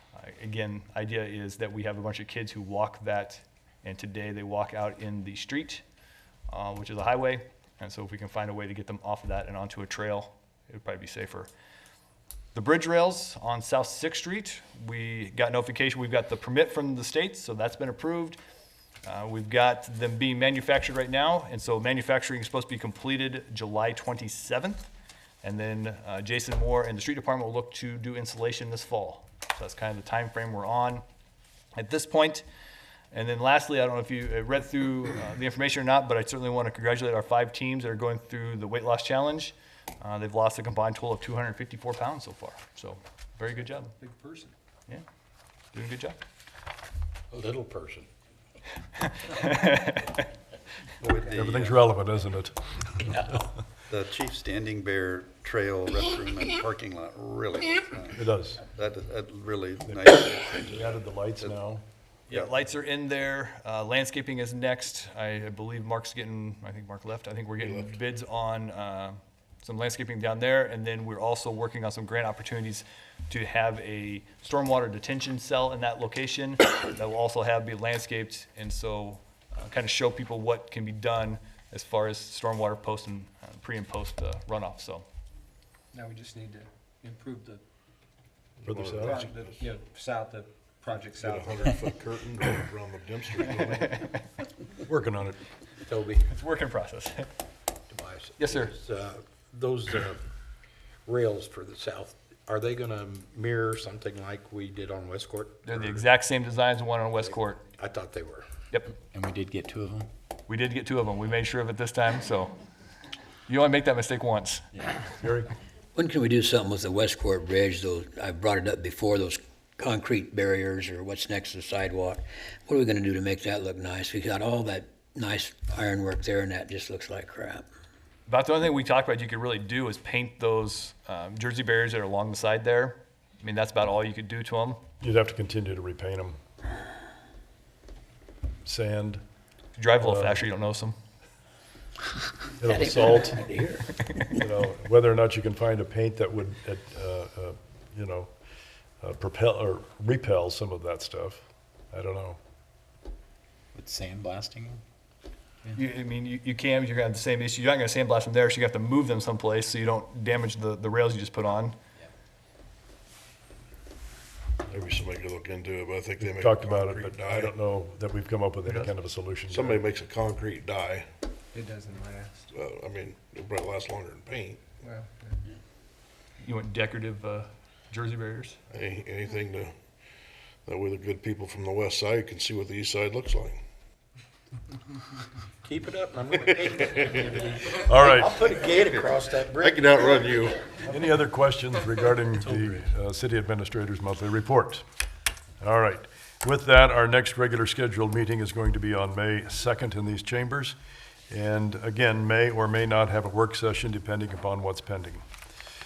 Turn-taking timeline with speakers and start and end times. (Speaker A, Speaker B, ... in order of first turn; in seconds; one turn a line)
Speaker A: 0.2-5.8
Speaker A: 6.5-11.5
Speaker A: 12.5-18.4
Speaker A: 19.0-24.9
Speaker A: 25.4-31.0
Speaker A: 31.8-32.5
Speaker A: 33.1-43.9
Speaker B: 44.0-44.5
Speaker A: 45.7-46.2
Speaker C: 47.3-48.1
Speaker A: 48.9-50.3
Speaker D: 51.0-51.8
Speaker E: 51.1-53.3
Speaker A: 53.1-53.4
Speaker D: 53.9-61.6
Speaker E: 58.1-58.6
Speaker E: 59.9-61.8
Speaker A: 62.3-85.0
Speaker F: 67.6-68.0
Speaker B: 85.9-87.6
Speaker F: 88.6-89.7
Speaker E: 88.6-89.2
Speaker B: 89.0-91.9
Speaker F: 91.1-94.0
Speaker E: 94.8-95.4
Speaker C: 95.8-96.2
Speaker A: 96.3-97.3
Speaker C: 97.9-100.2
Speaker A: 98.4-98.7
Speaker C: 101.1-106.0
Speaker A: 105.7-107.6
Speaker C: 107.2-108.5
Speaker G: 109.1-110.1
Speaker A: 110.5-112.5
Speaker A: 113.5-114.6
Speaker E: 115.2-115.5
Speaker H: 116.0-127.6
Speaker A: 128.3-134.8
Speaker E: 135.0-136.4
Speaker E: 138.7-139.2
Speaker A: 139.8-141.0
Speaker E: 140.0-140.4
Speaker E: 142.6-143.4
Speaker H: 143.2-143.8
Speaker E: 144.3-148.3
Speaker E: 149.0-152.4
Speaker G: 153.7-154.8
Speaker A: 155.7-161.8
Speaker F: 164.7-167.5
Speaker E: 166.2-169.8
Speaker F: 169.5-171.1
Speaker B: 171.5-172.5
Speaker F: 172.5-174.7
Speaker B: 174.8-175.4
Speaker A: 176.4-178.6
Speaker F: 178.7-179.7
Speaker F: 180.7-183.6
Speaker C: 185.6-189.8
Speaker E: 187.8-188.4
Speaker F: 189.6-190.7
Speaker E: 190.9-194.8
Speaker G: 192.4-192.8
Speaker E: 195.6-200.8
Speaker E: 201.3-205.2